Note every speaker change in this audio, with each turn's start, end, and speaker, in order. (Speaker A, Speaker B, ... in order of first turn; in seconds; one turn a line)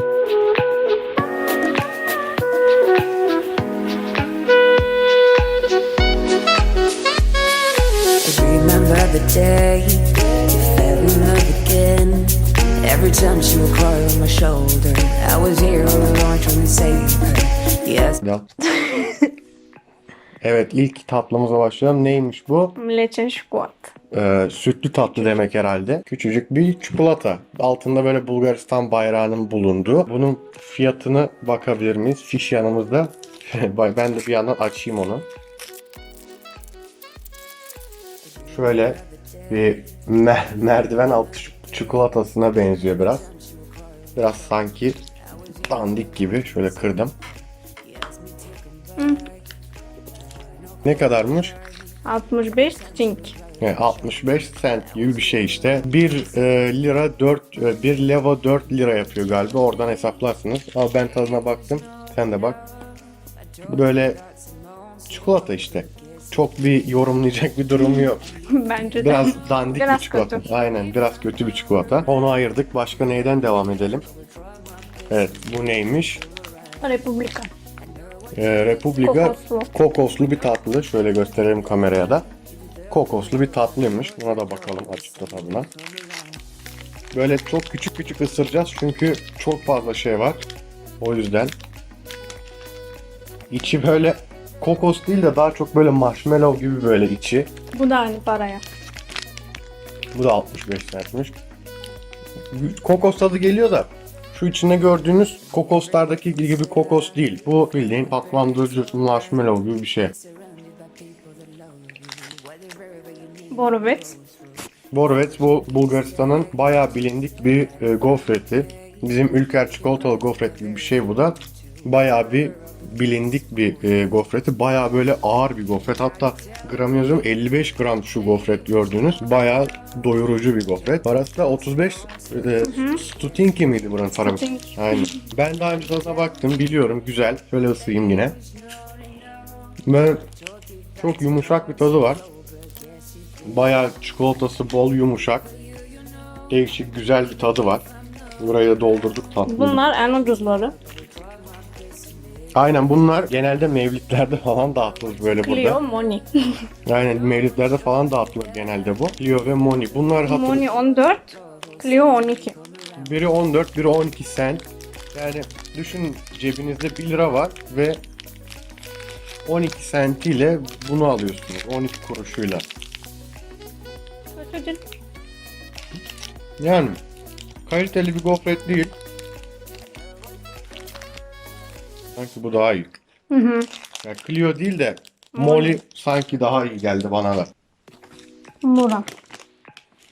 Speaker A: 8.2-18.2
Speaker B: 18.2-18.5
Speaker C: 18.7-19.3
Speaker B: 20.4-22.8
Speaker C: 22.8-23.9
Speaker B: 24.1-35.3
Speaker B: 38.5-43.3
Speaker B: 44.1-45.0
Speaker B: 45.6-47.1
Speaker C: 49.0-49.3
Speaker B: 50.8-51.6
Speaker C: 52.0-53.4
Speaker B: 53.6-62.6
Speaker B: 63.7-64.2
Speaker B: 65.1-68.3
Speaker C: 67.8-70.5
Speaker B: 68.9-74.1
Speaker B: 75.1-76.2
Speaker C: 76.8-77.5
Speaker B: 78.3-82.2
Speaker C: 79.0-79.7
Speaker B: 82.9-85.7
Speaker B: 87.1-90.5
Speaker B: 91.0-91.5
Speaker B: 93.5-97.5
Speaker C: 97.7-98.7
Speaker B: 100.1-101.4
Speaker B: 102.5-110.2
Speaker C: 113.5-114.2
Speaker B: 114.9-138.4
Speaker C: 132.6-133.0
Speaker C: 134.2-135.2
Speaker B: 139.9-140.2
Speaker B: 141.0-142.3
Speaker B: 143.4-145.5
Speaker B: 146.5-147.9
Speaker B: 148.4-149.8
Speaker C: 149.5-150.8
Speaker B: 152.6-155.8
Speaker C: 155.4-156.6
Speaker B: 156.9-160.7
Speaker C: 160.3-162.6
Speaker B: 163.0-168.0
Speaker B: 169.4-172.7
Speaker C: 174.3-174.8
Speaker B: 176.6-177.0
Speaker B: 177.7-178.9
Speaker B: 182.2-182.9
Speaker C: 183.3-183.7
Speaker B: 184.0-187.5
Speaker C: 185.3-185.8
Speaker C: 188.6-189.1